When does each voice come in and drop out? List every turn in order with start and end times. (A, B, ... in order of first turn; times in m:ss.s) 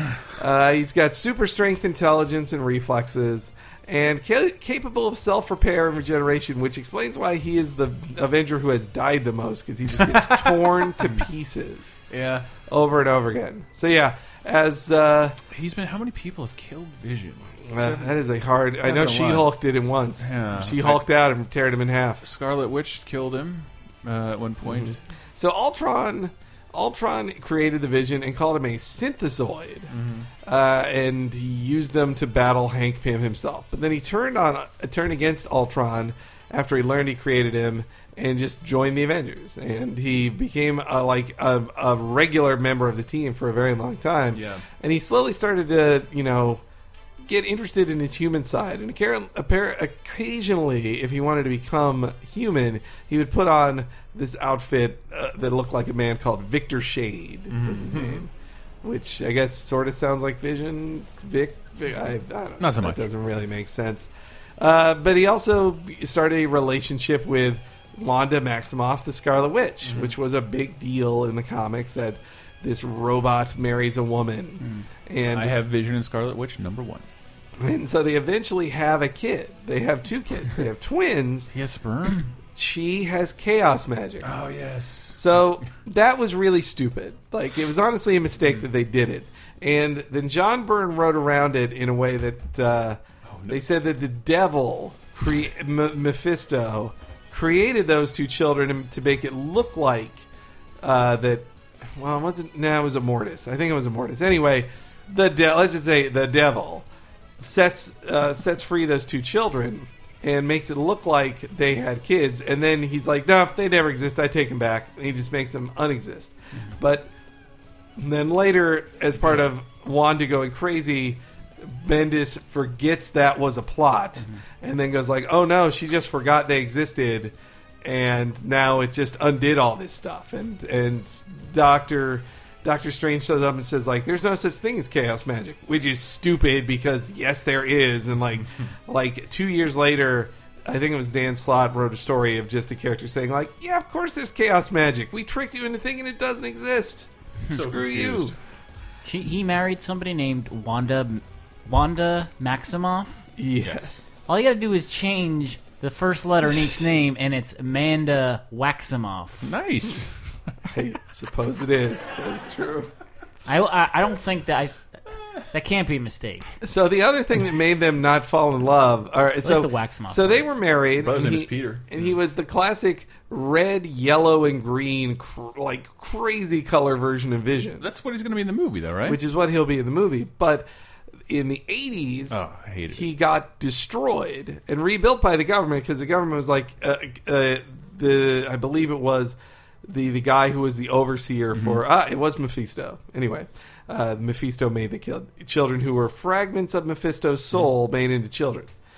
0:00.3-0:12.0 A
0:10.0-0:10.8 B
0:12.1-0:12.5 B
0:12.6-0:15.4 A
0:15.5-0:18.1 B
0:17.7-0:22.2 A
0:18.8-0:19.5 B
0:20.2-0:21.0 B
0:22.2-0:25.0 B
0:24.6-0:29.9 A
0:29.9-0:30.3 B
0:30.4-0:46.6 A
0:44.3-0:44.6 B
0:47.2-0:58.3 A
0:57.5-0:58.2 B
0:58.8-1:15.5 A
1:02.6-1:03.0 B
1:09.8-1:10.1 B
1:15.3-1:17.0 B
1:17.6-1:21.5 A
1:21.5-1:22.3 B
1:22.5-1:24.3 A
1:24.2-1:25.2 B
1:25.1-1:40.2 A
1:33.3-1:33.6 B
1:40.8-1:46.8 A
1:47.4-1:57.1 A
1:58.0-2:28.3 A
2:04.2-2:04.4 C
2:27.5-2:28.4 B
2:29.0-2:33.3 C
2:33.4-2:34.1 A
2:34.3-2:39.5 C
2:39.4-2:40.2 B
2:40.6-2:42.9 A
2:43.4-2:46.6 C
2:46.6-2:57.8 A
2:49.4-2:50.4 C
2:51.0-2:52.0 B
2:57.8-2:59.2 B
2:59.0-3:00.7 A
3:01.3-3:02.4 A
3:02.3-3:03.0 B
3:02.9-3:18.7 A
3:11.5-3:11.8 B